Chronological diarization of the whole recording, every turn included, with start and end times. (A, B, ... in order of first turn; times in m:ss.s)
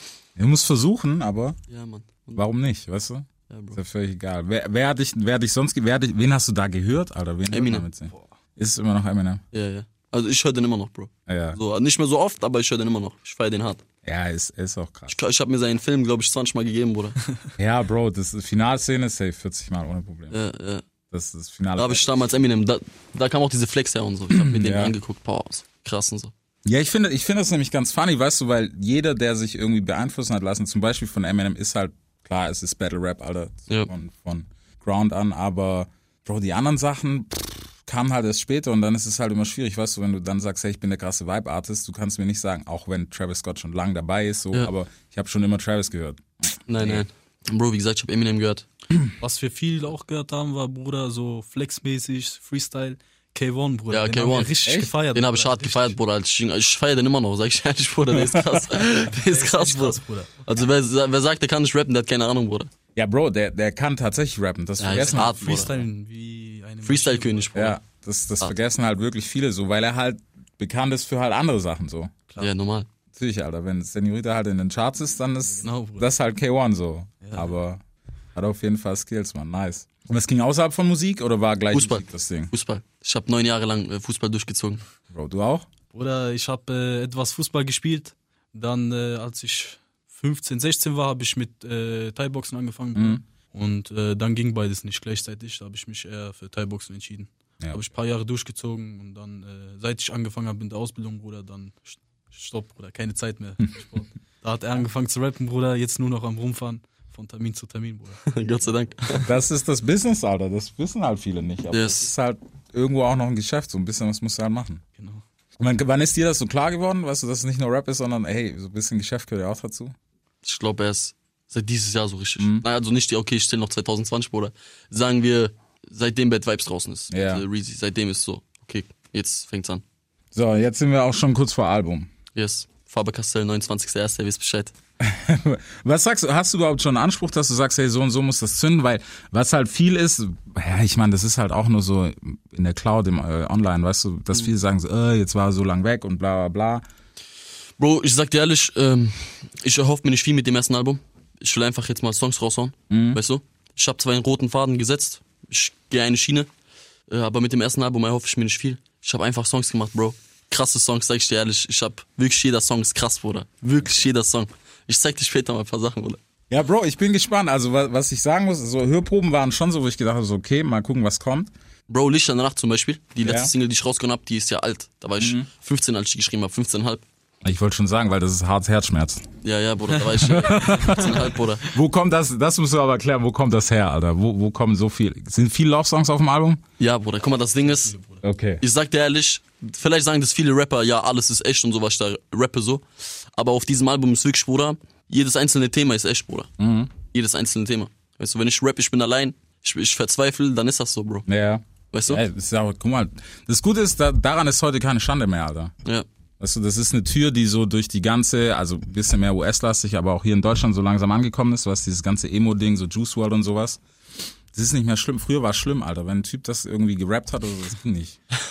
0:00.4-0:01.6 A
0:01.7-0:02.4 B
0:02.4-0:09.4 A
0:03.5-0:03.8 B
0:07.5-0:07.9 B
0:09.5-0:13.8 B
0:11.3-0:11.6 A
0:14.0-0:15.2 A
0:15.1-0:17.2 B
0:17.6-0:20.4 A
0:20.3-0:20.8 B
0:21.1-0:22.2 A
0:21.8-0:26.3 B
0:24.3-0:25.0 A
0:26.7-0:47.0 A
0:46.7-0:48.7 B
0:49.2-0:56.0 C
0:53.9-0:54.6 B
0:54.6-0:54.9 A
0:55.1-1:02.7 B
0:59.0-1:00.4 C
1:03.0-1:05.7 A
1:04.8-1:05.8 B
1:04.9-1:07.7 C
1:06.8-1:07.8 B
1:07.6-1:12.1 A
1:12.4-1:12.9 B
1:13.1-1:17.8 A
1:15.5-1:16.1 C
1:17.2-1:17.5 C
1:18.4-1:22.5 A
1:21.7-1:24.8 B
1:25.1-1:25.6 A
1:25.9-1:48.4 C
1:33.0-1:33.2 A
1:48.3-1:49.3 B
1:49.2-1:54.8 A
1:51.7-1:52.1 B
1:55.0-1:55.2 C
1:55.6-1:59.9 A
2:00.4-2:09.8 B
2:02.4-2:02.6 A
2:07.1-2:07.4 A
2:10.3-2:12.1 A
2:12.3-2:14.7 B
2:15.0-2:26.8 A
2:27.8-2:36.5 B
2:32.9-2:33.2 A
2:37.1-2:46.2 B
2:46.5-2:51.5 A
2:51.9-2:57.0 B
2:53.2-2:53.5 A
2:55.2-2:55.5 A
2:57.4-2:59.2 A
2:59.4-3:01.7 B
3:00.1-3:00.9 C
3:00.2-3:06.6 A
3:06.8-3:07.9 B
3:07.6-3:08.2 C
3:08.2-3:08.6 A
3:08.6-3:16.5 B
3:16.6-3:16.9 A
3:17.0-3:21.2 B
3:21.3-3:25.7 A
3:21.9-3:22.2 B
3:26.4-3:33.8 A
3:34.5-3:38.2 A